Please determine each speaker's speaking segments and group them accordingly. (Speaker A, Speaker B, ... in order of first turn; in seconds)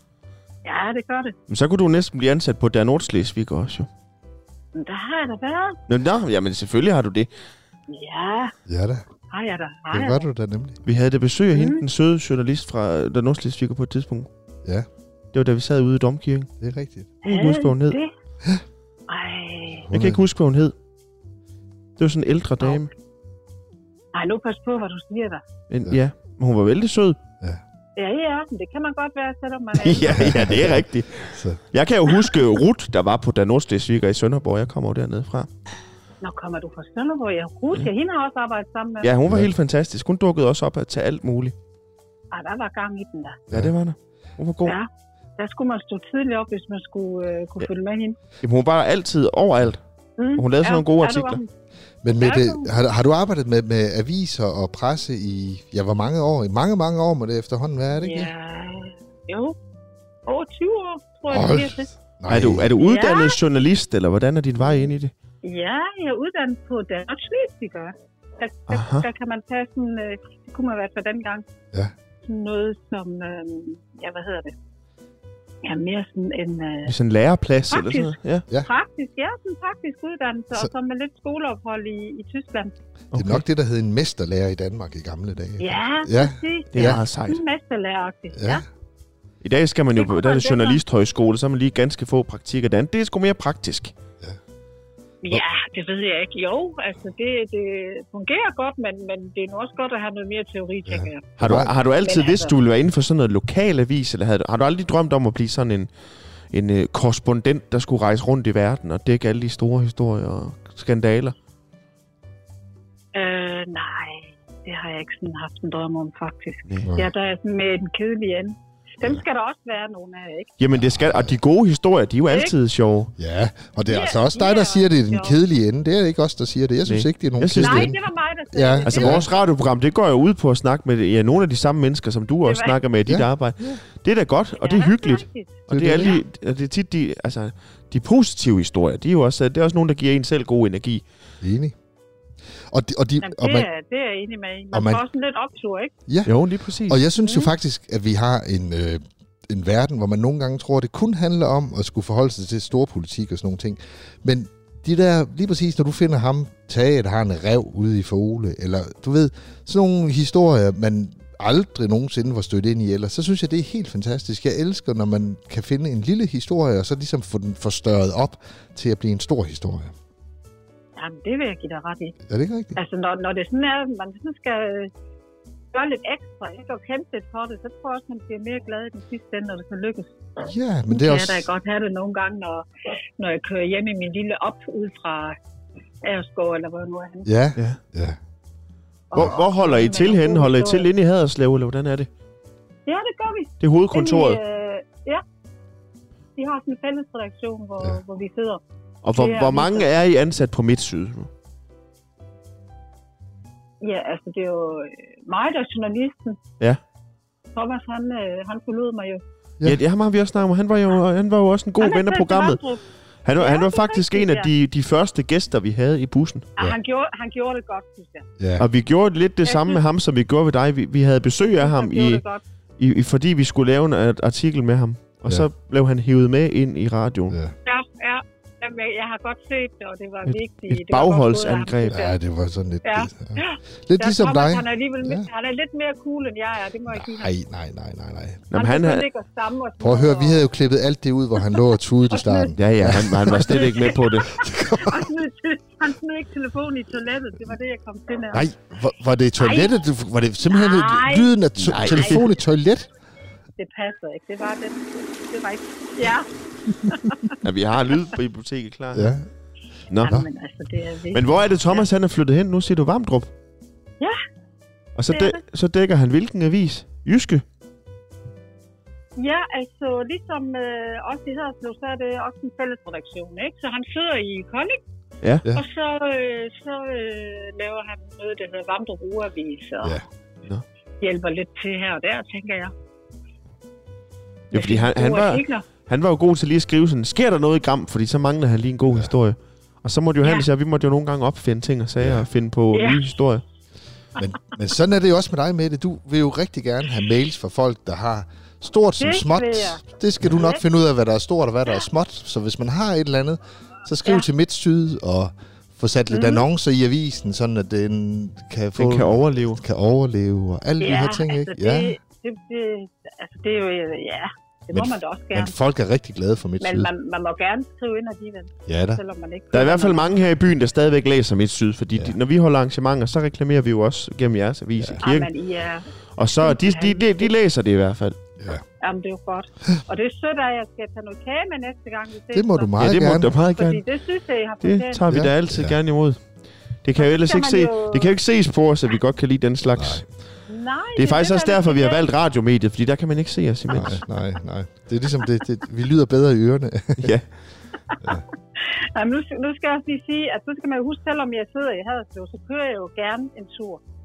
Speaker A: 0.7-1.4, 4.7-5.8, 7.9-8.5, 9.3-10.3, 11.5-11.8, 17.2-18.1, 19.1-19.9, 24.1-25.4, 28.0-30.4, 36.2-39.1, 42.3-43.4, 44.6-48.2, 50.2-51.5, 52.2-52.7, 58.0-59.6, 60.3-61.9, 62.8-63.4, 65.4-71.5, 72.2-74.6, 75.6-76.9, 77.7-82.7, 85.6-88.6, 90.0-90.8, 95.2-102.5, 113.1-120.5, 123.9-125.4, 127.6-129.3, 132.4-132.8, 134.6-136.2, 143.2-145.9, 147.2-147.5, 171.0-172.2, 172.8-174.9, 175.7-180.2, 180.9-182.7, 183.2-185.4, 186.0-187.3, 189.1-190.9, 192.9-195.2, 196.4-198.6, 199.1-199.9, 203.8-206.4, 207.6-209.2, 211.8-212.8, 213.4-214.5, 216.6-218.3, 219.5-219.8, 221.4-222.4, 227.7-232.2, 232.8-237.3, 238.5-240.5, 241.5-242.5, 243.5-248.5, 249.4-249.8, 250.5-252.2, 253.6-257.4, 260.0-261.9, 265.1-265.4, 269.2-274.8, 275.5-280.0, 281.0-282.7, 284.5-285.6, 290.2-290.5, 292.7-293.1, 299.0-300.6, 306.1-306.5, 310.8-315.5, 316.6-320.1, 325.0-325.9, 326.4-327.3, 328.8-335.0, 337.0-338.1, 340.5-342.1, 347.9-353.8
Speaker B: 1.5-3.9, 5.9-7.3, 10.8-14.3, 15.3-16.5, 17.2-18.0, 19.9-20.8, 22.0-22.9, 25.7-27.2, 29.8-35.5, 39.0-41.5, 43.5-44.8, 48.4-49.8, 50.4-51.4, 62.3-65.1, 68.7-69.1, 76.9-78.5, 83.1-83.4, 86.7-87.4, 89.4-93.9, 101.4-105.9, 106.5-111.3, 120.6-123.1, 126.9-127.9, 128.8-141.0, 146.3-147.0, 189.1-192.1, 193.6-194.4, 199.0-201.3, 209.6-212.6, 213.2-216.5, 218.6-222.2, 222.8-227.3, 230.2-232.0, 238.5-239.1, 242.6-244.3, 251.6-252.3, 257.4-259.2, 259.9-260.2, 261.1-263.3, 265.0-267.4, 284.5-293.4, 308.8-309.6, 319.5-325.3, 326.2-328.2, 332.8-333.8, 334.6-336.2, 336.8-340.1, 341.0-344.0, 347.0-347.2
Speaker C: 8.7-9.0, 9.9-10.8, 16.6-17.1, 19.9-20.2, 30.1-31.6, 39.3-39.5, 52.0-58.3, 61.3-62.7, 83.1-87.0, 88.3-88.6, 100.9-101.7, 116.8-117.1, 120.7-121.4, 123.2-128.0, 128.5-129.3, 135.7-136.2, 141.4-141.8, 142.7-143.7, 144.7-145.0, 146.1-169.9, 172.3-172.8, 180.4-181.5, 187.2-188.2, 218.4-218.7, 227.3-227.6, 231.9-235.3, 236.9-238.5, 239.8-245.1, 248.3-252.9, 258.9-259.3, 292.0-292.3, 294.2-312.0, 314.7-316.9, 318.7-319.0, 328.4-328.6, 332.3-333.3, 335.1-335.8, 339.7-340.0, 343.7-347.2